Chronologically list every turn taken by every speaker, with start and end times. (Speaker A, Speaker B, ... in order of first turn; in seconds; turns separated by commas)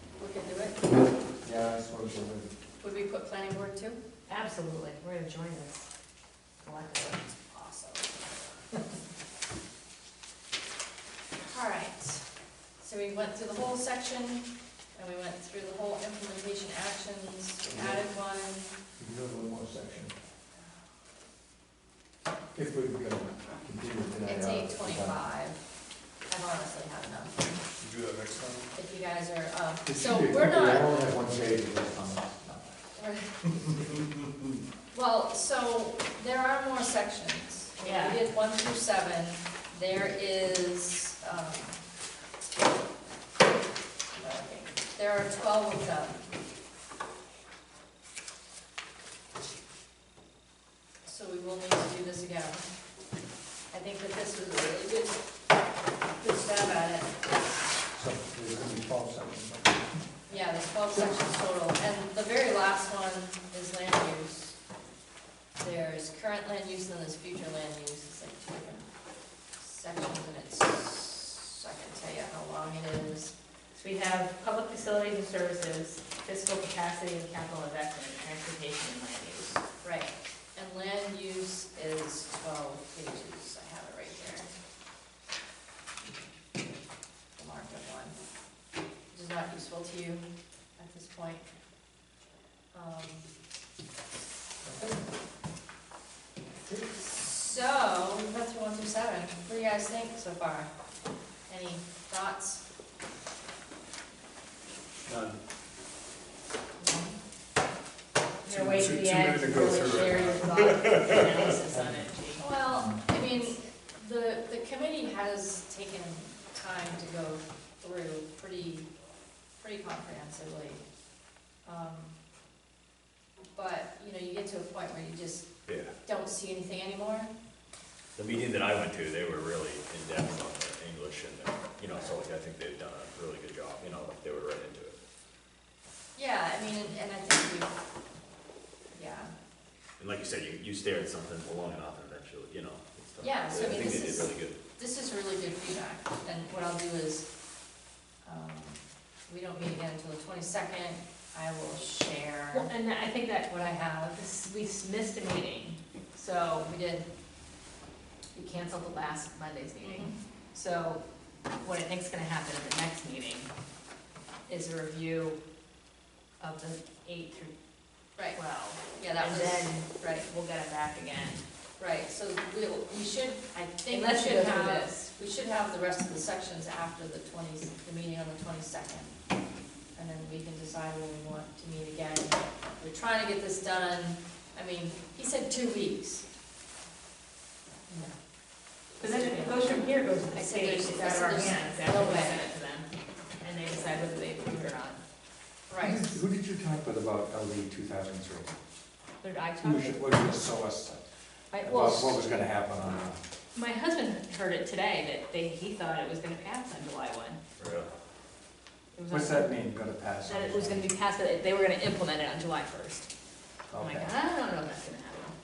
Speaker A: 0.2-0.8, Speaker B: 1.4-2.5, Speaker A: 2.8-4.0, Speaker C: 4.3-5.9, Speaker C: 6.6-7.2, Speaker A: 7.5-8.1, Speaker A: 11.4-12.2, Speaker A: 12.8-18.7, Speaker B: 17.6-18.0, Speaker B: 19.0-20.1, Speaker B: 22.5-25.2, Speaker A: 24.2-25.6, Speaker A: 26.3-27.4, Speaker D: 27.8-28.6, Speaker A: 28.7-31.0, Speaker B: 29.9-32.7, Speaker A: 33.0-33.4, Speaker A: 34.9-41.8, Speaker C: 37.8-38.2, Speaker A: 44.1-46.2, Speaker A: 51.0-52.6, Speaker A: 53.7-55.2, Speaker A: 56.2-57.1, Speaker B: 58.0-59.8, Speaker A: 60.3-64.5, Speaker A: 65.6-68.8, Speaker A: 69.6-73.3, Speaker C: 73.7-79.6, Speaker A: 79.8-84.5, Speaker A: 87.3-88.2, Speaker A: 89.1-90.2, Speaker A: 90.8-91.4, Speaker A: 92.7-93.2, Speaker B: 94.7-95.0, Speaker A: 96.9-100.7, Speaker A: 101.5-102.6, Speaker A: 106.8-107.1, Speaker C: 108.4-112.4, Speaker B: 108.5-110.1, Speaker D: 108.9-110.6, Speaker B: 111.7-112.1, Speaker A: 112.4-118.9, Speaker B: 112.7-113.1, Speaker A: 119.6-120.8, Speaker A: 121.6-122.1, Speaker A: 123.5-125.5, Speaker E: 125.7-125.9, Speaker A: 126.0-127.3, Speaker E: 128.2-134.9, Speaker A: 131.9-132.2, Speaker A: 136.2-137.7, Speaker A: 138.9-139.3, Speaker E: 140.0-144.6, Speaker A: 143.2-147.2, Speaker A: 148.2-152.7, Speaker C: 152.5-153.5, Speaker A: 153.5-154.2, Speaker C: 154.1-156.7, Speaker A: 156.7-157.1, Speaker C: 158.3-161.0, Speaker A: 159.8-160.1, Speaker C: 161.6-163.5, Speaker C: 164.5-165.4, Speaker C: 166.4-167.5, Speaker C: 168.3-171.4, Speaker A: 168.9-170.3, Speaker A: 171.8-179.1, Speaker C: 173.8-175.1, Speaker A: 179.9-186.2, Speaker C: 189.0-192.9, Speaker A: 189.0-189.7, Speaker A: 190.3-192.5, Speaker C: 193.4-195.0, Speaker A: 195.7-196.2, Speaker B: 195.8-198.5, Speaker C: 199.2-200.0, Speaker B: 199.6-201.0, Speaker C: 201.5-202.2, Speaker B: 201.6-203.2, Speaker C: 203.5-207.4, Speaker E: 207.6-207.9, Speaker C: 208.9-209.5, Speaker B: 209.1-210.9, Speaker C: 210.2-213.1, Speaker B: 213.7-214.1, Speaker C: 213.8-215.3